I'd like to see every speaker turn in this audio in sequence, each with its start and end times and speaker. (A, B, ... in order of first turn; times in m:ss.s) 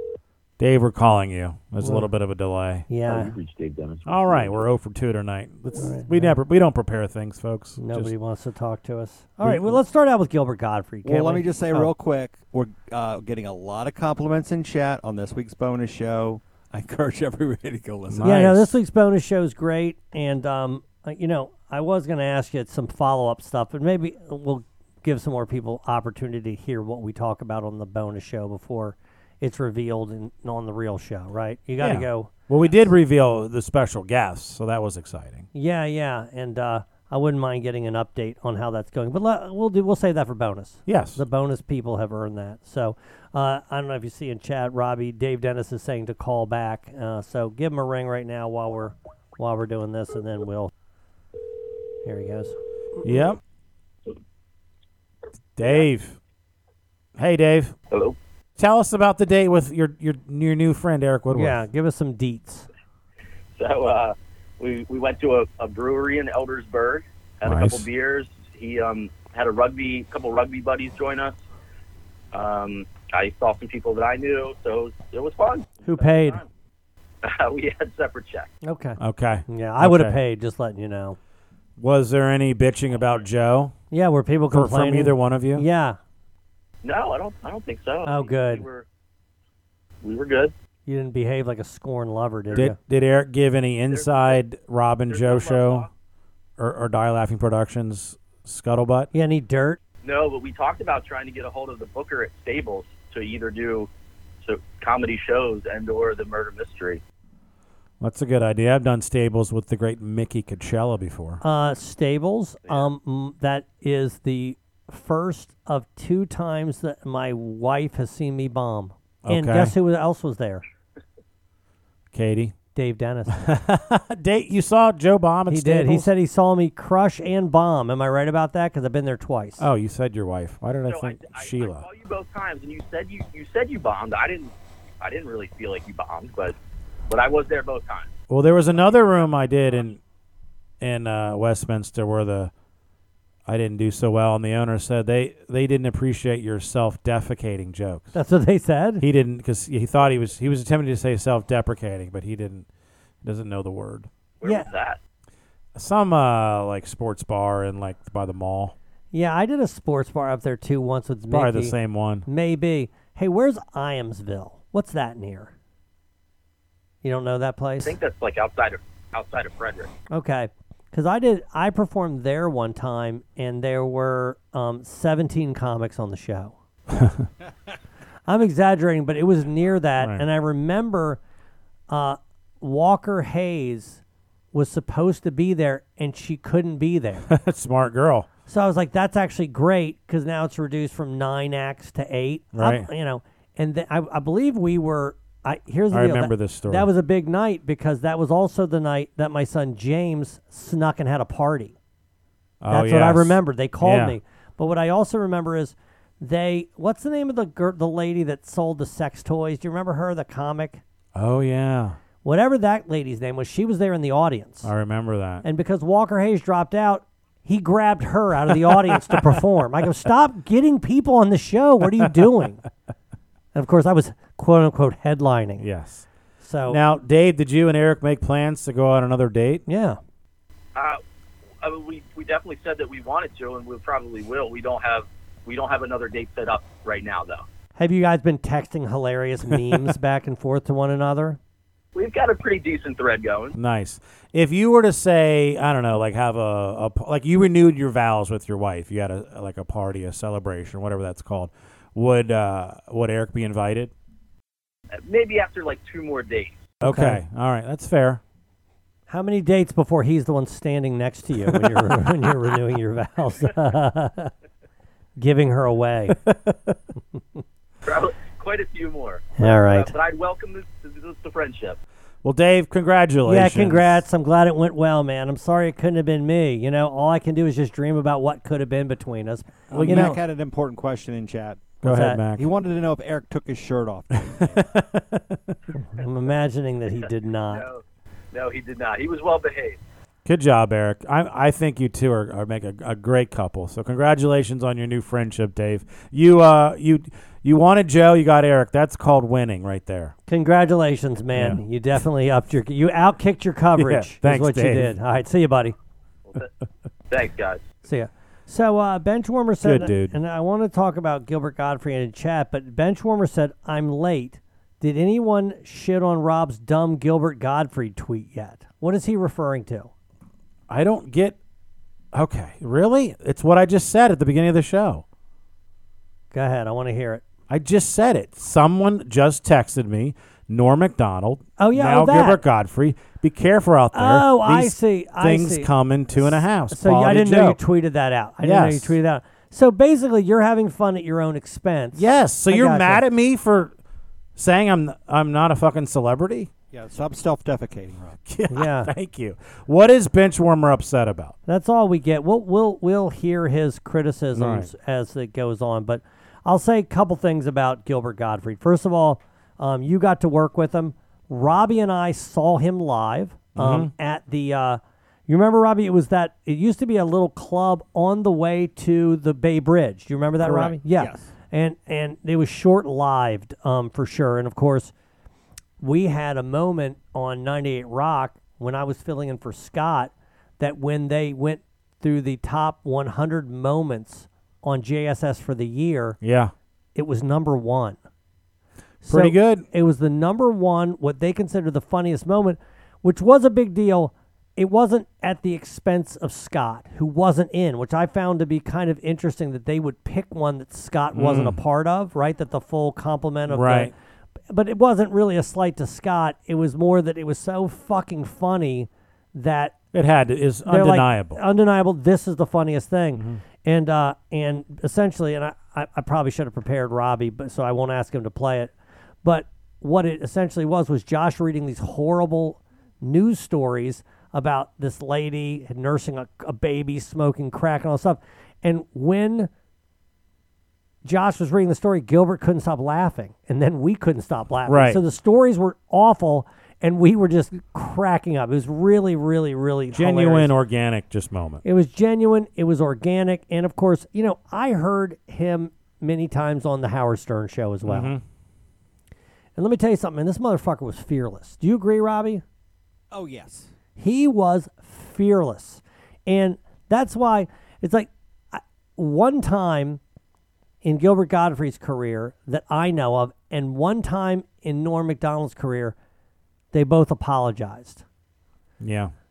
0:00.6-0:02.9 A
0:01.8-0:02.1 B
0:02.9-0:03.4 B
0:04.0-0:08.1 A
0:05.8-0:06.4 B
0:07.8-0:11.9 B
0:09.4-0:09.8 A
0:11.0-0:18.4 C
0:18.1-0:18.7 A
0:18.2-0:32.3 B
0:31.8-0:35.5 A
0:35.5-0:50.7 B
0:40.9-0:41.2 A
0:52.0-0:52.6 B
0:53.0-0:53.4 A
0:55.6-0:56.2 A
0:57.2-0:57.7 A
0:57.9-0:58.2 D
0:58.6-1:01.6 A
1:01.3-1:02.7 B
1:03.6-1:11.4 D
1:07.4-1:07.8 A
1:12.3-1:16.5 D
1:15.8-1:16.4 B
1:17.2-1:18.5 D
1:18.6-1:21.2 B
1:19.0-1:20.1 A
1:21.8-1:23.7 A
1:22.9-1:23.2 D
1:23.9-1:26.0 B
1:24.5-1:25.6 A
1:26.8-1:28.8 D
1:28.0-1:28.6 B
1:30.0-1:30.5 D
1:30.9-1:32.8 B
1:32.5-1:35.9 A
1:33.9-1:34.4 D
1:35.1-1:35.9 D
1:36.6-1:39.1 A
1:39.1-1:39.8 B
1:40.0-1:43.9 D
1:44.4-1:47.0 D
1:48.0-1:51.4 A
1:51.4-2:00.6 B
1:59.2-1:59.7 A
2:02.1-2:02.6 A
2:02.7-2:03.5 B
2:03.4-2:06.1 A
2:05.5-2:09.6 B
2:09.6-2:11.8 A
2:10.9-2:16.6 D
2:17.1-2:18.1 D
2:18.3-2:20.0 A
2:20.8-2:22.5 A
2:23.4-2:28.1 A
2:28.1-2:29.0 B
2:29.0-2:32.7 A
2:33.2-2:34.1 A
2:34.4-2:35.0 D
2:35.7-2:38.7 A
2:39.1-2:45.5 B
2:41.3-2:42.2 A
2:47.0-2:48.0 B
2:47.8-2:49.9 D
2:50.1-2:56.5 B
2:57.0-2:57.2 A
2:58.3-3:01.2 B
3:00.0-3:00.2 A
3:01.9-3:04.0 B
3:04.5-3:07.3 B
3:07.3-3:08.3 A
3:08.5-3:21.8 B
3:12.5-3:12.9 A
3:15.9-3:16.9 A
3:22.6-3:24.2 A
3:22.7-3:30.8 B
3:31.1-3:32.0 A
3:32.2-3:34.7 B
3:34.6-3:35.4 A
3:35.4-3:42.6 B
3:38.5-3:39.3 A
3:43.5-3:45.6 B
3:45.6-3:46.1 A
3:46.4-3:46.8 B
3:46.7-3:49.6 A
3:49.7-3:50.0 B
3:50.7-3:51.0 D
3:51.6-3:57.4 D
3:57.8-4:01.4 B
4:01.9-4:03.6 D
4:03.5-4:13.9 A
4:14.9-4:16.6 D
4:16.8-4:18.2 A
4:16.8-4:17.2 B
4:19.1-4:24.3 B
4:21.5-4:21.8 A
4:25.2-4:26.2 B
4:26.2-4:26.8 A
4:27.8-4:31.8 D
4:29.4-4:29.9 B
4:32.2-4:34.0 A
4:33.2-4:40.2 B
4:39.7-4:40.2 A
4:39.7-4:41.8 C
4:41.8-4:42.5 A
4:41.8-4:42.2 B
4:42.3-4:44.6 C
4:44.3-4:45.6 A
4:45.8-4:47.6 B
4:47.5-4:47.8 D
4:48.3-4:49.8 D
4:50.2-5:00.1 A
5:00.3-5:05.8 B
5:01.3-5:01.6 A
5:03.8-5:04.9 A
5:07.1-5:07.6 D
5:07.8-5:19.9 B
5:09.6-5:10.2 A
5:20.7-5:21.4 A
5:22.1-5:25.0 A
5:26.3-5:27.2 B
5:27.5-5:37.6 A
5:31.6-5:32.4 B
5:33.9-5:43.0 B
5:38.4-5:39.0 A
5:41.9-5:43.7 A
5:44.4-5:46.5 A
5:46.7-5:48.2 C
5:48.2-5:51.3 A
5:48.5-5:48.9 B
5:51.5-6:14.9 B
5:54.3-5:54.7 A
6:03.6-6:03.9 A
6:10.4-6:11.3 C
6:15.8-6:26.2 B
6:26.2-6:26.5 A
6:26.9-6:28.0 B
6:29.0-6:43.9 B
6:29.1-6:29.6 A
6:41.1-6:41.6 A
6:43.5-6:43.9 A
6:44.5-6:49.8 B
6:49.9-6:51.4 A
6:50.6-6:58.7 B
6:59.2-7:09.5 B
7:11.0-7:20.5 B
7:14.7-7:15.0 A
7:19.9-7:21.6 A
7:21.6-7:28.1 B
7:27.8-7:28.2 A
7:29.6-7:32.4 B
7:33.1-7:33.7 C
7:34.0-7:40.0 B
7:40.8-7:45.9 B
7:46.7-7:48.0 B
7:48.8-7:49.1 A